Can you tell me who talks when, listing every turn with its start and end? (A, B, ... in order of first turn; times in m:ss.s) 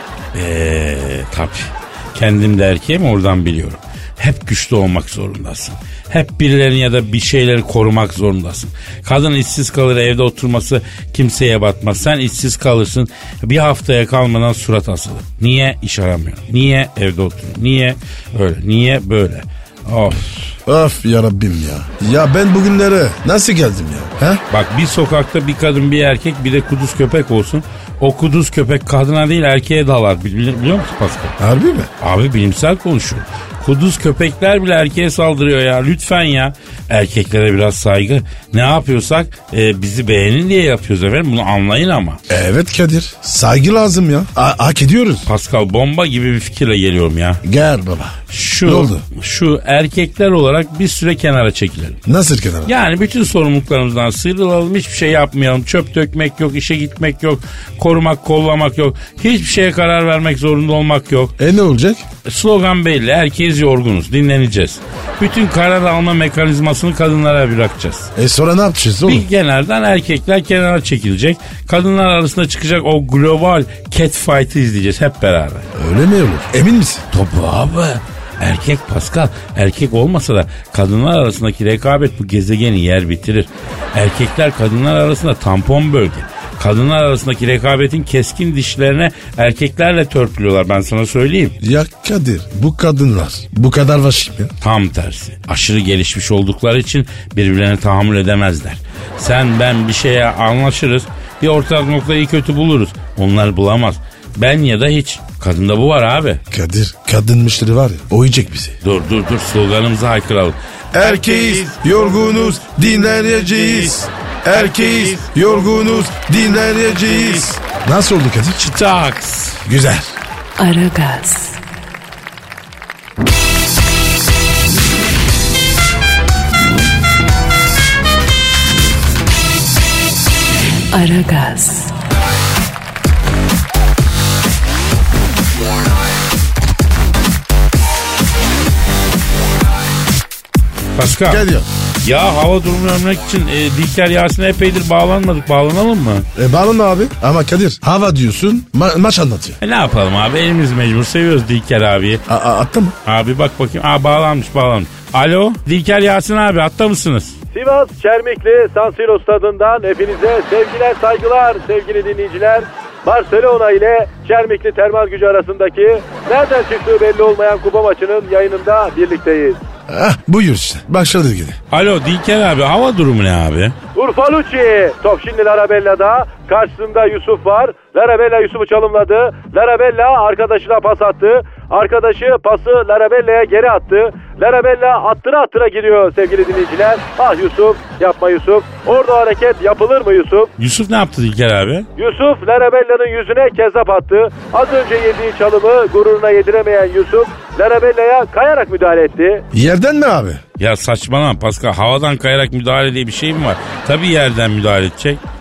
0:00.3-0:20.5 A
0:20.6-0:24.4 B
0:24.5-0:31.4 A
0:31.4-0:31.9 B
0:32.0-0:42.2 A
0:42.3-0:45.3 B
0:45.3-0:47.4 A
0:47.4-0:49.0 B
0:48.3-0:52.0 A
0:52.0-0:52.7 B
0:52.6-1:01.3 A
1:01.4-1:02.0 B
1:02.2-1:08.1 A
1:08.2-1:09.2 B
1:09.0-1:15.7 A
1:15.7-1:17.0 B
1:17.1-1:31.5 A
1:31.6-1:34.5 B
1:34.6-1:46.4 A
1:46.5-1:48.8 B
1:48.8-1:53.9 A
1:50.9-1:58.6 B
1:54.5-1:57.5 A
1:58.6-1:59.6 A
1:59.6-2:00.2 B
2:00.6-2:01.6 C
2:10.9-2:11.9 C
2:21.0-2:21.4 A
2:21.3-2:21.7 B
2:22.0-2:26.2 A
2:26.3-2:29.6 B
2:29.6-2:32.2 A
2:32.3-2:33.0 B
2:33.0-2:37.4 A
2:37.5-2:49.6 D
2:49.9-2:51.6 B
2:51.7-2:53.7 A
2:53.9-3:10.5 D
3:10.6-3:11.9 A
3:12.0-3:19.4 D
3:19.5-3:20.4 B
3:20.6-3:25.2 A